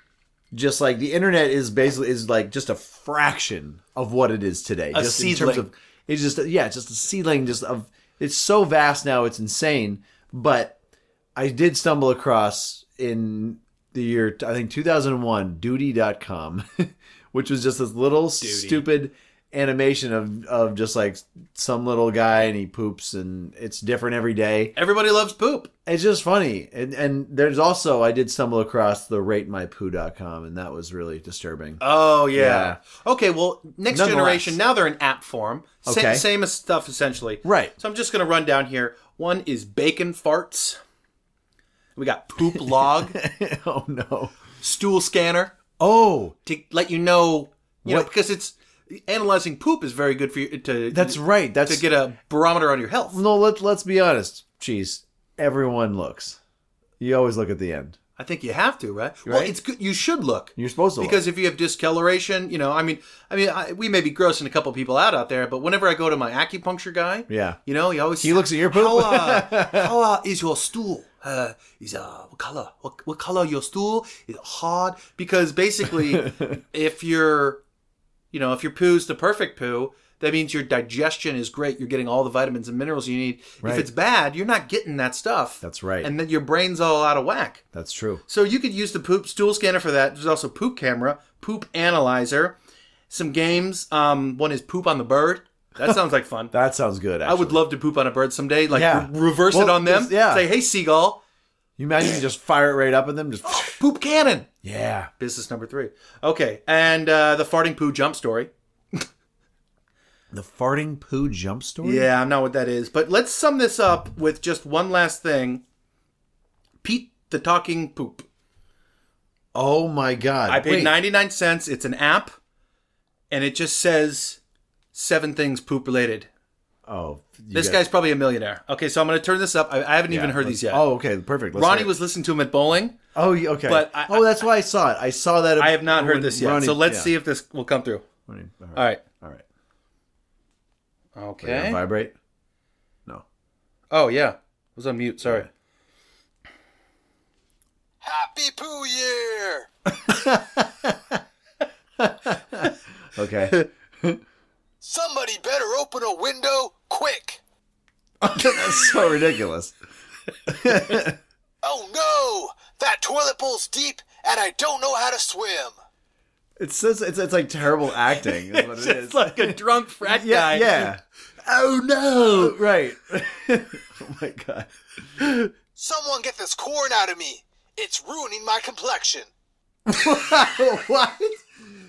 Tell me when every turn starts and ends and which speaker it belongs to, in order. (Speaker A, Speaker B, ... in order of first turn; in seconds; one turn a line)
Speaker A: 0.5-10.8
Speaker B: 4.9-5.7
Speaker A: 11.3-24.7
Speaker B: 18.4-18.8
Speaker B: 24.8-25.7
Speaker A: 25.9-31.8
Speaker B: 31.8-40.8
Speaker A: 32.3-32.8
Speaker A: 33.9-34.6
Speaker A: 35.8-36.2
Speaker A: 37.4-37.7
Speaker B: 42.0-43.1
Speaker A: 42.5-44.3
Speaker B: 44.6-45.6
Speaker A: 45.8-46.4
Speaker B: 46.4-53.2
Speaker A: 47.8-48.1
Speaker A: 50.9-51.8
Speaker A: 53.1-56.4
Speaker A: 57.0-58.0
Speaker B: 58.2-77.6
Speaker A: 59.2-59.5
Speaker A: 60.5-61.2
Speaker A: 67.3-67.6
Speaker A: 68.2-69.9
Speaker A: 76.0-76.5
Speaker B: 78.3-87.6
Speaker A: 83.6-83.9
Speaker A: 85.6-86.1
Speaker A: 87.7-88.2
Speaker B: 88.3-92.6
Speaker B: 93.1-96.5
Speaker A: 96.5-97.6
Speaker B: 97.2-101.2
Speaker A: 98.7-100.5
Speaker A: 101.8-103.8
Speaker B: 103.5-104.5
Speaker A: 104.6-105.1
Speaker B: 105.2-109.0
Speaker A: 110.3-112.1
Speaker B: 111.8-115.6
Speaker B: 116.8-118.2
Speaker A: 119.5-120.9
Speaker B: 120.5-122.3
Speaker B: 123.3-124.4
Speaker B: 124.9-126.3
Speaker A: 126.8-127.8
Speaker B: 127.5-130.8
Speaker A: 130.1-131.9
Speaker B: 131.5-133.0
Speaker A: 133.1-137.1
Speaker B: 133.7-134.3
Speaker B: 135.6-138.0
Speaker A: 138.3-139.4
Speaker B: 138.7-139.0
Speaker B: 141.2-141.8
Speaker A: 141.4-142.1
Speaker B: 143.9-145.5
Speaker C: 148.0-149.7
Speaker A: 149.9-151.2
Speaker A: 152.0-154.2
Speaker C: 154.8-157.4
Speaker A: 158.2-159.7
Speaker A: 160.5-161.2
Speaker C: 161.6-165.7
Speaker A: 166.6-175.3
Speaker B: 168.1-170.9
Speaker C: 175.8-179.3
Speaker A: 179.9-181.5